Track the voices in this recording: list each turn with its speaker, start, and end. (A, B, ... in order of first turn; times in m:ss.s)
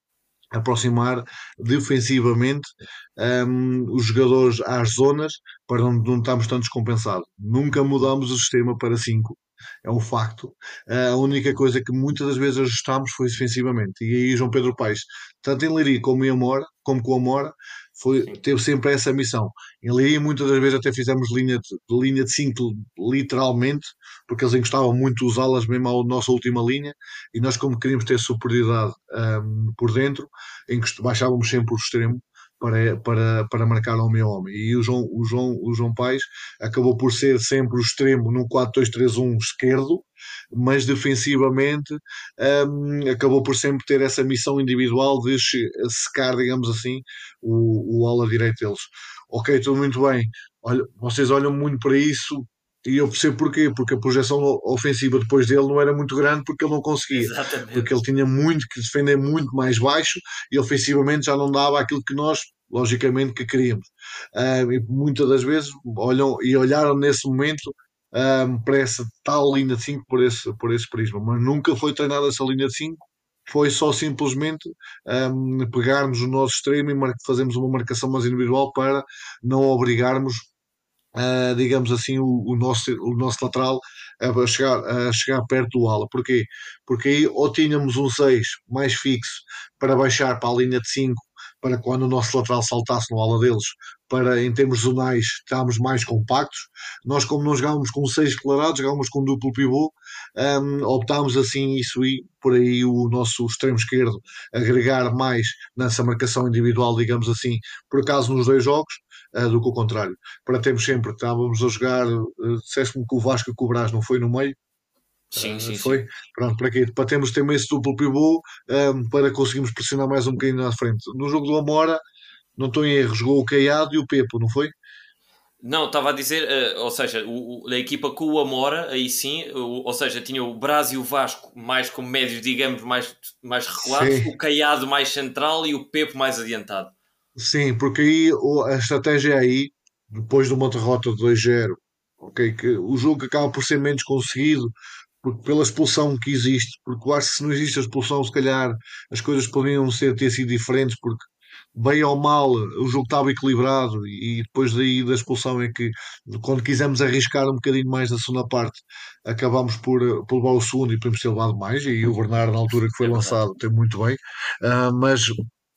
0:00.5-1:20.5 A
0:57.1-0:58.0 B
1:21.2-1:54.6 A
1:55.3-2:02.0 A
1:55.3-1:56.0 B
2:02.6-2:04.7 A
2:05.6-2:16.9 B
2:13.8-2:14.3 A
2:17.4-2:24.7 A
2:25.2-2:45.4 A
2:43.0-2:43.4 B